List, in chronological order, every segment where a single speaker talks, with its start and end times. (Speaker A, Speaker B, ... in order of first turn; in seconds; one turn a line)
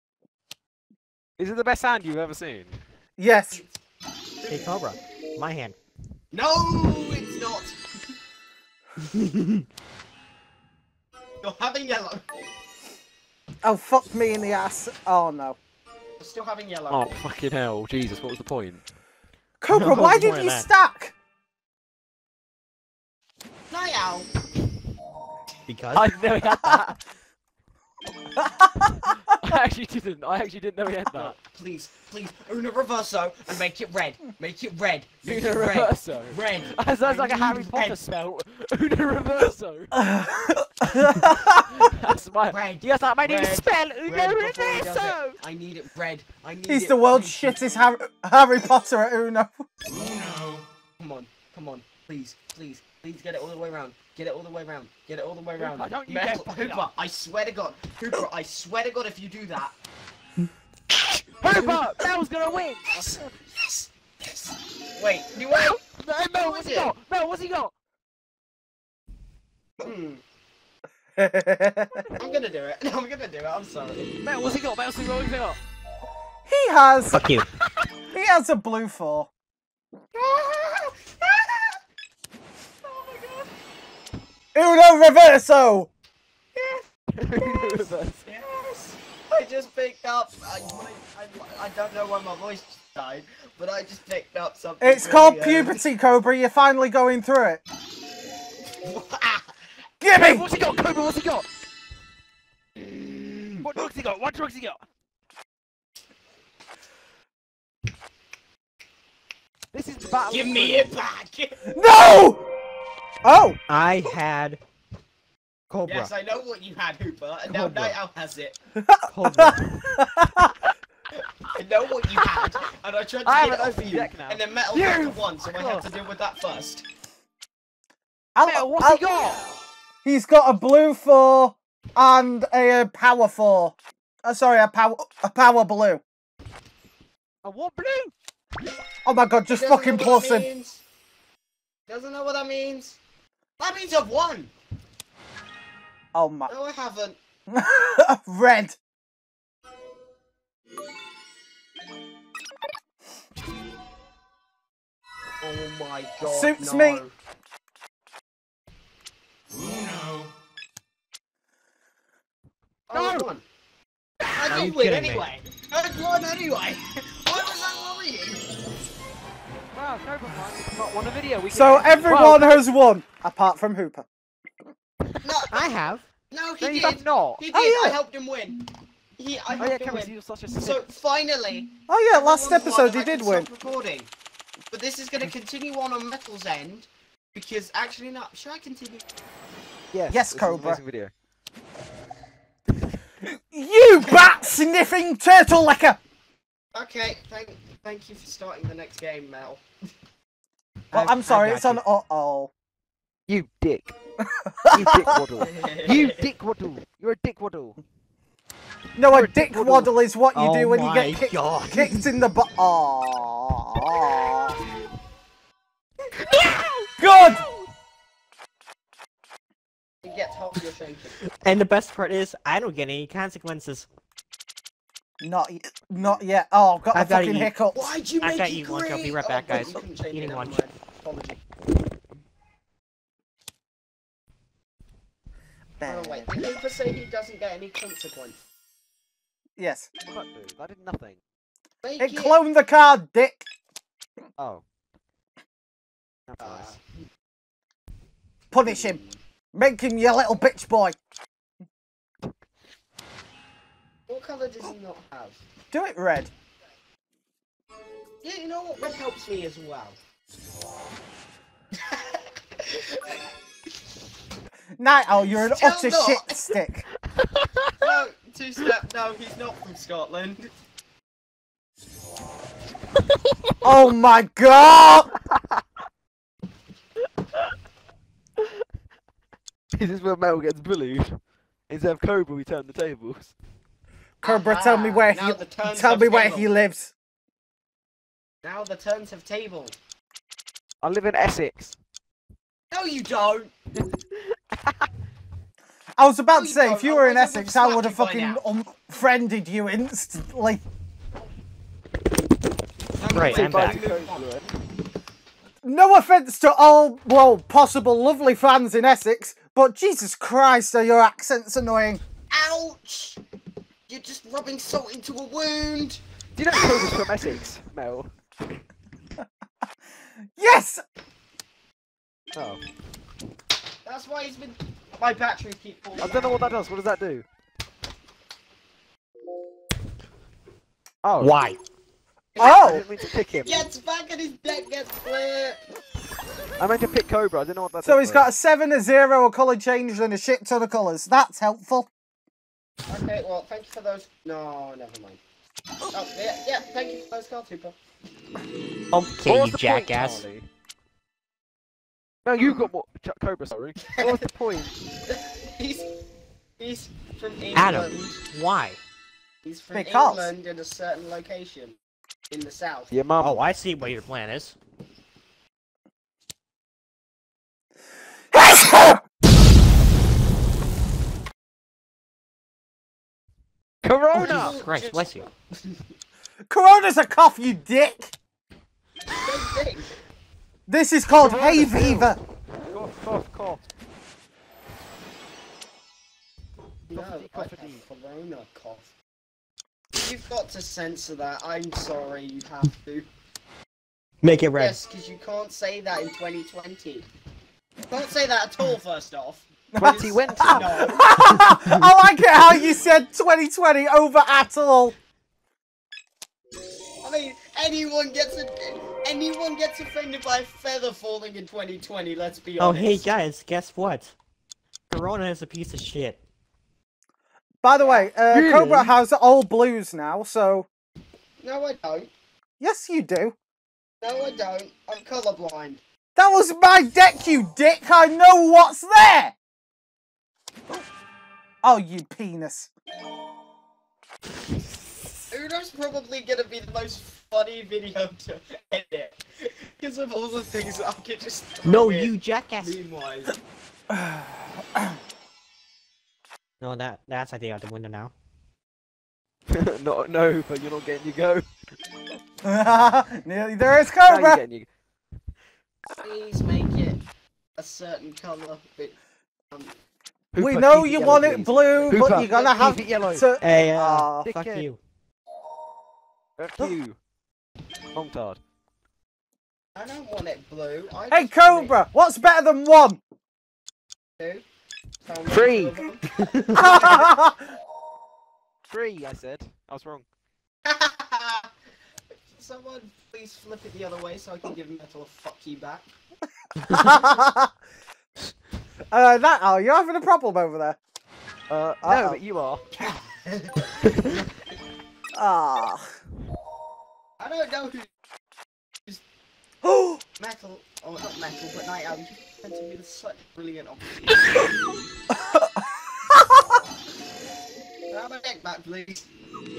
Speaker A: 1.4-2.8
Speaker B: 3.2-3.6
Speaker C: 4.4-4.8
Speaker D: 4.5-5.8
Speaker C: 6.3-7.8
Speaker D: 9.1-9.6
Speaker C: 11.4-12.2
Speaker B: 13.6-15.6
Speaker C: 16.2-17.1
Speaker A: 16.9-18.8
Speaker B: 19.6-21.1
Speaker D: 19.7-20.7
Speaker C: 23.7-24.3
Speaker D: 25.7-26.1
Speaker A: 25.9-27.0
Speaker B: 28.4-29.1
Speaker A: 28.9-31.4
Speaker C: 31.1-38.0
Speaker A: 35.2-39.9
Speaker B: 39.9-41.6
Speaker A: 41.0-45.4
Speaker C: 42.5-47.6
Speaker B: 46.7-49.6
Speaker C: 51.0-59.8
Speaker A: 55.6-56.9
Speaker A: 61.4-63.3
Speaker C: 63.0-66.9
Speaker A: 65.5-67.7
Speaker C: 69.8-70.2
Speaker B: 71.2-72.1
Speaker C: 72.2-74.1
Speaker A: 74.2-75.6
Speaker B: 76.5-77.3
Speaker D: 77.1-77.5
Speaker B: 78.1-79.3
Speaker C: 80.1-81.8
Speaker C: 82.8-83.5
Speaker B: 84.5-85.9
Speaker C: 86.5-86.9
Speaker A: 87.2-88.3
Speaker C: 87.4-95.8
Speaker B: 94.8-97.6
Speaker C: 98.8-99.5
Speaker B: 100.0-100.5
Speaker A: 100.2-101.5
Speaker C: 102.8-103.7
Speaker A: 103.6-104.8
Speaker A: 109.7-111.0
Speaker C: 110.3-111.6
Speaker B: 111.7-112.4
Speaker B: 113.2-113.6
Speaker D: 113.7-114.6
Speaker D: 115.7-116.1
Speaker C: 115.9-118.6
Speaker D: 117.5-118.0
Speaker B: 118.8-120.5
Speaker D: 119.1-119.6
Speaker C: 121.5-126.8
Speaker A: 122.1-122.7
Speaker A: 123.2-125.9
Speaker B: 128.3-129.2
Speaker A: 128.4-129.4
Speaker B: 130.0-136.0
Speaker A: 137.4-138.1
Speaker B: 139.1-140.5
Speaker C: 139.5-140.8
Speaker C: 141.9-143.0
Speaker C: 143.6-144.5
Speaker B: 146.1-146.5
Speaker C: 146.5-147.2
Speaker B: 147.5-148.8
Speaker C: 155.4-157.1
Speaker B: 156.2-157.0
Speaker C: 162.9-163.4
Speaker A: 162.9-163.3
Speaker A: 164.2-164.7
Speaker C: 164.3-168.4
Speaker D: 164.5-165.3
Speaker A: 169.7-172.7
Speaker B: 171.5-174.1
Speaker C: 175.2-175.7
Speaker D: 175.5-176.1
Speaker C: 176.3-178.6
Speaker A: 176.6-177.4
Speaker B: 177.5-178.0
Speaker C: 179.2-184.1
Speaker A: 179.6-180.9
Speaker B: 181.9-183.5
Speaker C: 184.7-189.0
Speaker A: 189.9-191.1
Speaker B: 190.1-190.8
Speaker B: 193.2-196.0
Speaker C: 194.0-194.3
Speaker C: 196.7-199.7
Speaker D: 200.9-201.8
Speaker B: 200.9-202.5
Speaker A: 203.3-203.9
Speaker B: 204.2-205.2
Speaker A: 204.7-207.8
Speaker C: 205.4-206.3
Speaker B: 209.0-214.6
Speaker A: 209.1-209.9
Speaker D: 210.3-212.1
Speaker A: 216.4-217.7
Speaker B: 217.0-217.4
Speaker C: 220.0-221.2
Speaker D: 221.4-223.9
Speaker B: 225.2-227.9
Speaker D: 226.9-227.5
Speaker C: 227.7-231.4
Speaker D: 228.2-230.6
Speaker B: 235.8-236.3
Speaker C: 235.8-238.4
Speaker B: 239.6-239.9
Speaker A: 240.1-241.2
Speaker C: 241.8-242.4
Speaker B: 242.0-243.4
Speaker A: 244.4-244.6
Speaker A: 246.3-246.8
Speaker C: 246.4-246.8
Speaker B: 248.5-249.0
Speaker C: 248.6-249.2
Speaker B: 249.5-251.0
Speaker C: 254.1-255.4
Speaker B: 255.7-256.3
Speaker C: 258.2-260.0
Speaker C: 261.8-263.1
Speaker B: 264.8-266.9
Speaker C: 265.3-266.5
Speaker A: 267.2-267.9
Speaker C: 267.8-270.5
Speaker B: 273.6-275.1
Speaker A: 279.7-283.3
Speaker B: 284.2-286.9
Speaker C: 284.2-286.5
Speaker C: 288.4-289.8
Speaker A: 290.8-291.8
Speaker C: 292.7-293.5
Speaker B: 296.0-300.6
Speaker C: 296.3-298.4
Speaker C: 303.0-304.3
Speaker D: 303.1-303.8
Speaker A: 303.2-304.5
Speaker B: 305.6-312.0
Speaker C: 312.3-313.2
Speaker C: 313.9-316.0
Speaker A: 316.4-318.1
Speaker B: 320.4-320.8
Speaker A: 322.3-322.6
Speaker C: 323.9-326.6
Speaker A: 326.0-327.3
Speaker A: 331.0-331.4
Speaker D: 331.2-331.6
Speaker C: 332.4-335.6
Speaker B: 332.4-332.8
Speaker A: 332.4-333.7
Speaker A: 336.6-338.3
Speaker B: 337.8-341.9
Speaker C: 342.9-345.2
Speaker C: 345.9-347.8
Speaker D: 348.9-350.2
Speaker A: 349.2-350.5
Speaker A: 352.2-354.7
Speaker C: 353.8-354.2
Speaker C: 355.1-355.9
Speaker C: 356.6-358.2
Speaker D: 357.6-358.8
Speaker C: 359.4-361.8
Speaker B: 359.7-360.3
Speaker C: 362.3-362.9
Speaker A: 362.9-363.4
Speaker D: 363.2-364.6
Speaker B: 368.3-369.0
Speaker A: 373.8-374.6
Speaker C: 374.1-375.9
Speaker D: 374.1-375.3
Speaker B: 376.5-378.1
Speaker C: 379.2-379.9
Speaker B: 380.7-382.2
Speaker A: 381.2-383.6
Speaker C: 386.9-388.9
Speaker A: 386.9-387.9
Speaker C: 389.9-393.1
Speaker D: 394.2-394.8
Speaker C: 394.6-397.1
Speaker C: 397.9-401.1
Speaker A: 399.8-400.8
Speaker B: 399.8-404.9
Speaker D: 401.2-401.9
Speaker C: 407.0-413.1
Speaker D: 412.6-414.1
Speaker D: 414.9-416.2
Speaker B: 417.6-420.7
Speaker C: 417.8-418.1
Speaker A: 418.3-418.9
Speaker C: 421.4-422.1
Speaker B: 422.6-423.4
Speaker C: 424.0-425.8
Speaker B: 426.2-429.4
Speaker B: 431.6-432.7
Speaker C: 435.3-443.4
Speaker D: 441.6-442.8
Speaker B: 443.9-445.0
Speaker D: 446.6-448.1
Speaker A: 449.5-451.5
Speaker B: 452.4-454.4
Speaker A: 454.0-454.7
Speaker C: 456.0-457.0
Speaker C: 457.6-459.0
Speaker A: 460.3-463.3
Speaker B: 460.4-464.3
Speaker C: 461.4-462.7
Speaker D: 463.4-464.8
Speaker A: 464.2-464.7
Speaker A: 466.4-467.0
Speaker A: 467.9-468.4
Speaker C: 469.8-471.8
Speaker B: 471.1-473.0
Speaker C: 474.2-474.4
Speaker C: 475.0-477.1
Speaker A: 475.3-475.8
Speaker D: 476.1-476.7
Speaker B: 476.6-477.4
Speaker A: 478.7-480.1
Speaker C: 480.6-481.5
Speaker C: 482.3-485.9
Speaker B: 486.7-487.5
Speaker B: 488.9-490.8
Speaker A: 491.5-492.7
Speaker B: 491.8-492.2
Speaker C: 492.8-493.7
Speaker B: 495.1-495.9
Speaker C: 497.2-497.9
Speaker B: 499.6-500.0
Speaker C: 500.2-504.2
Speaker B: 505.1-506.4
Speaker C: 507.9-509.1